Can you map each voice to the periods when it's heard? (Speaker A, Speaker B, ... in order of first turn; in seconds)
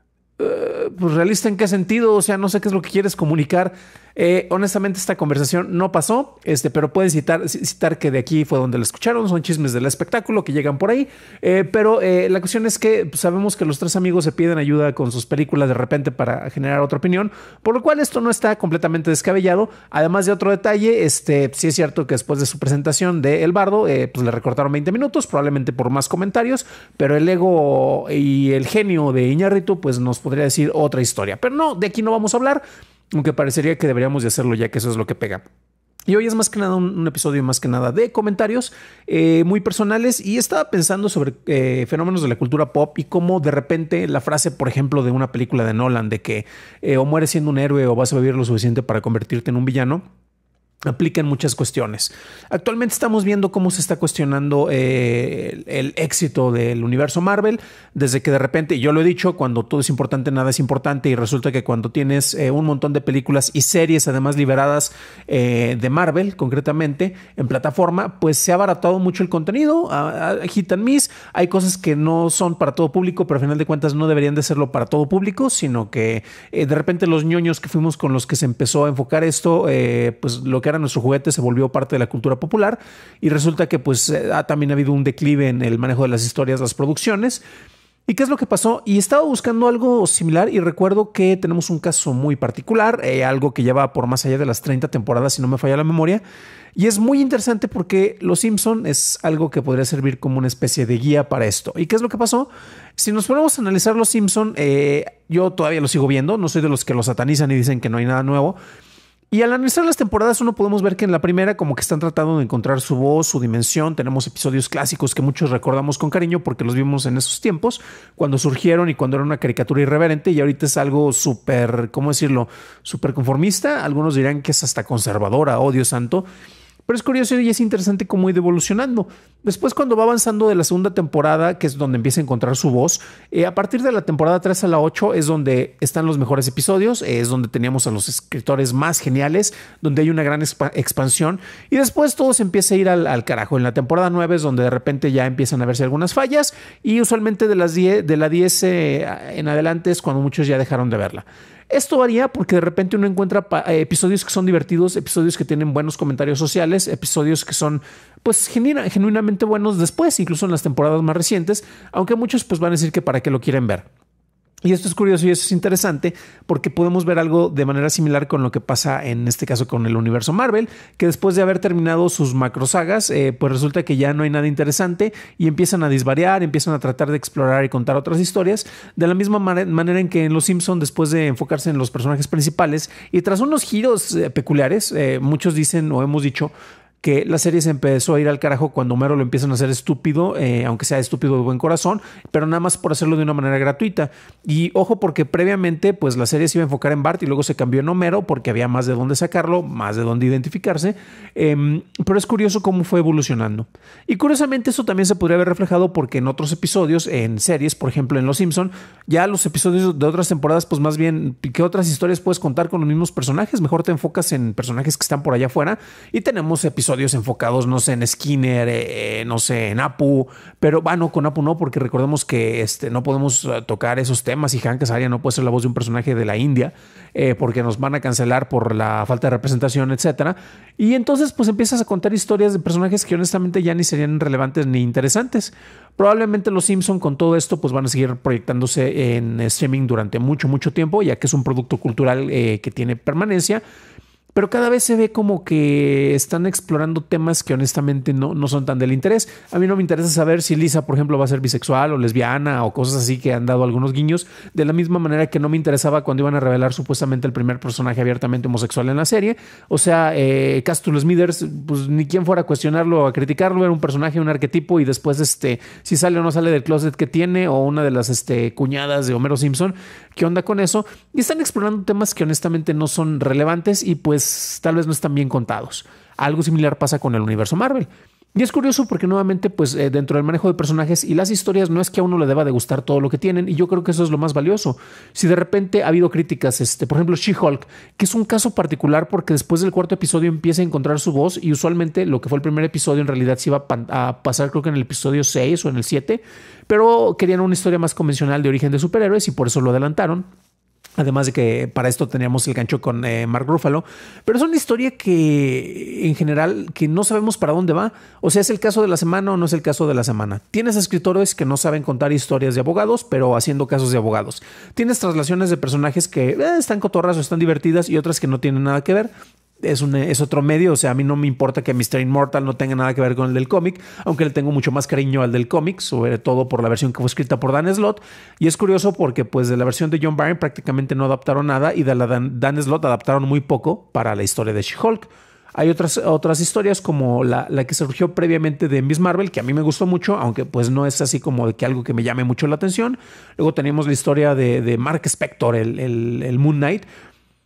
Speaker A: 0.4-35.4, 36.1-50.0, 50.9-87.4, 88.1-96.2, 96.8-108.6, 109.3-126.2, 126.9-163.9, 164.6-243.6, 244.3-300.3, 301.0-346.9